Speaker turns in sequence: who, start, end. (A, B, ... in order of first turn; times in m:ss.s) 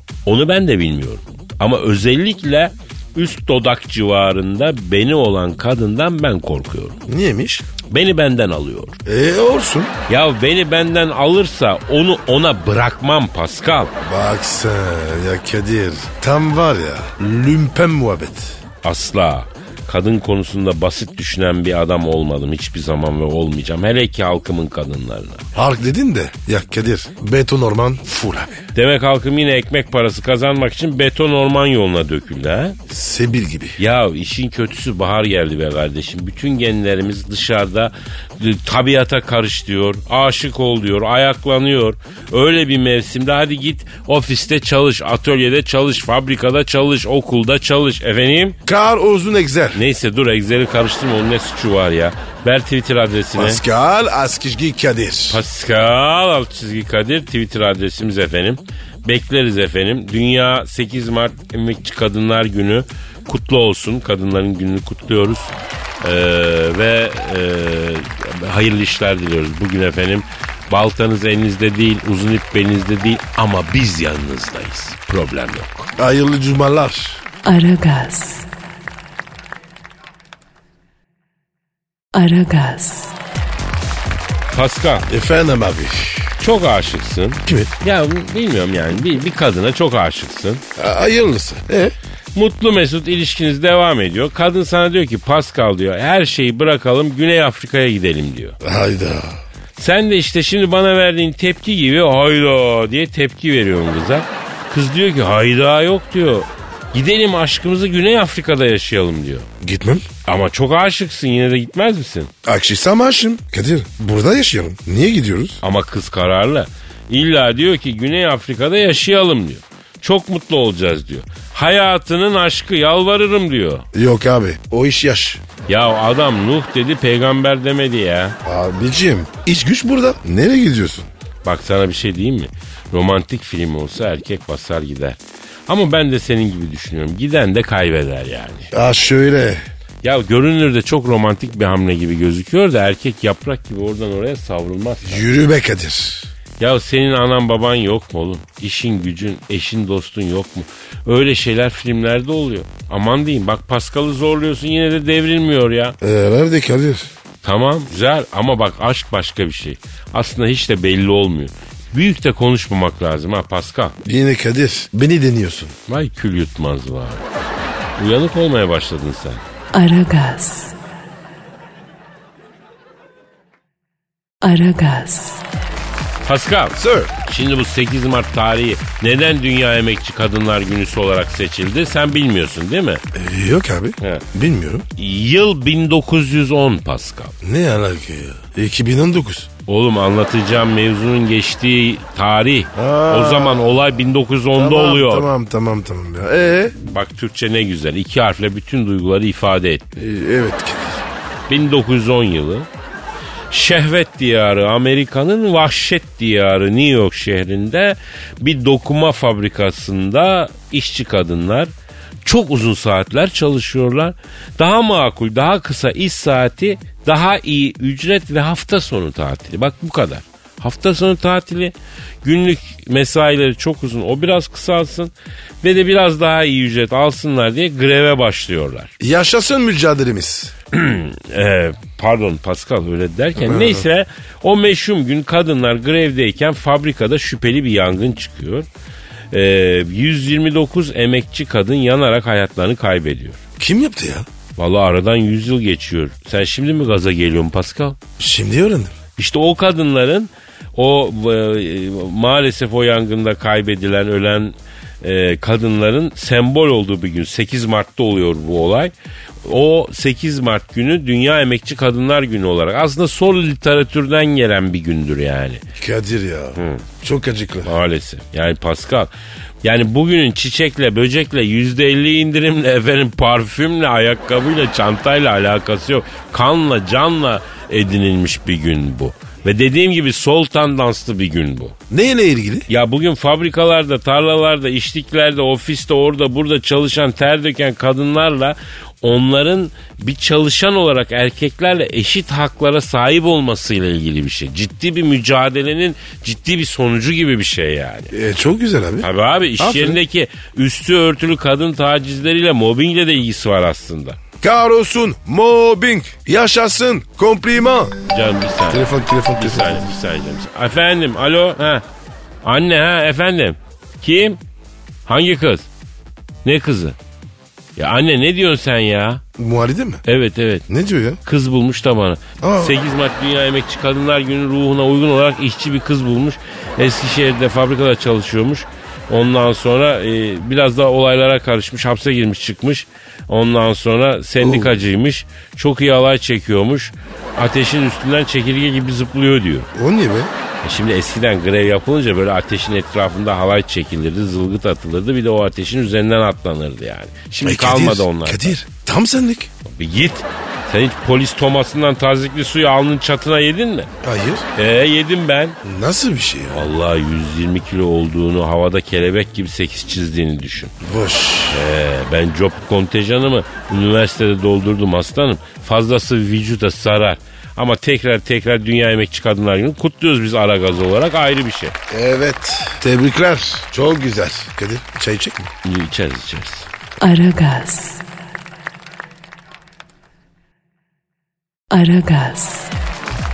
0:00.2-0:07.0 A
0:07.1-0:07.7 B
0:07.9-0:09.0 A
0:09.0-0:09.9 B
0:10.1-0:13.9 A
0:14.0-0:18.6 B
0:18.8-0:25.5 A
0:25.6-0:28.6 B
0:28.7-0:32.8 A
0:32.9-0:33.8 B
0:33.8-0:48.6 A
0:48.7-0:49.8 B
0:49.8-0:53.6 A
0:53.4-0:55.4 B
0:55.3-1:15.9 A
1:16.0-1:17.2 B
1:17.4-1:18.5 C
1:22.1-1:23.2 C
1:24.5-1:25.1 A
1:25.1-1:26.4 B
1:26.4-1:30.6 A
1:27.5-1:27.7 B
1:30.8-1:32.0 B
1:32.4-1:38.6 A
1:38.6-1:39.4 B
1:39.8-1:49.5 A
1:49.6-1:50.1 B
1:50.3-1:52.3 A
1:52.4-1:55.6 B
1:55.6-2:03.9 A
2:03.9-2:05.4 B
2:05.7-2:08.4 A
2:08.4-2:11.1 B
2:11.4-2:18.7 A
2:18.7-2:19.6 B
2:20.0-2:25.2 A
2:25.0-2:26.3 B
2:26.6-2:36.0 A
2:36.0-2:37.1 B
2:37.4-2:44.0 A
2:44.0-2:45.8 B
2:45.9-2:47.2 A
2:48.0-2:49.4 A
2:49.7-2:50.7 C
2:54.4-2:55.4 C
2:56.2-3:03.0 A
2:56.8-2:57.1 B
3:03.1-3:04.9 B
3:05.0-3:07.4 A
3:07.4-3:09.5 B
3:09.7-3:15.3 A
3:12.8-3:13.7 B
3:14.6-3:16.8 B
3:16.9-3:19.9 A
3:20.0-3:21.0 B
3:21.5-3:22.7 A
3:23.5-3:31.7 A
3:32.2-3:48.9 A
3:49.0-3:50.5 B
3:50.7-3:58.7 A
3:53.4-3:53.9 B
3:59.3-4:03.4 A
4:03.6-4:04.3 B
4:04.6-4:08.0 A
4:08.2-4:09.0 B
4:09.2-4:25.6 A
4:25.8-4:27.7 B
4:26.6-4:26.8 A
4:27.6-4:29.1 A
4:29.6-4:41.8 A
4:41.9-4:42.7 B
4:42.7-4:58.1 A
4:58.1-4:59.1 B
4:59.0-5:04.2 A
4:59.6-5:00.0 B
5:04.4-5:08.0 B
5:08.1-5:11.8 A
5:08.7-5:09.9 B
5:12.4-5:14.4 A
5:15.1-5:15.7 A
5:16.4-5:17.0 A
5:17.8-5:19.2 A
5:19.4-5:20.0 B
5:20.0-5:20.7 A
5:20.7-5:21.2 B
5:21.2-5:39.7 A
5:22.4-5:22.8 B
5:34.4-5:34.8 B
5:39.7-5:40.3 B
5:40.6-5:48.5 A
5:47.4-5:49.5 B
5:49.6-5:53.9 A
5:54.0-5:54.5 B
5:54.6-5:55.6 A
5:55.6-5:56.6 B
5:56.5-6:00.7 A
6:00.8-6:01.6 B
6:01.5-6:11.8 A
6:11.9-6:15.5 B
6:15.6-6:16.7 A
6:17.0-6:18.0 C
6:21.7-6:22.7 C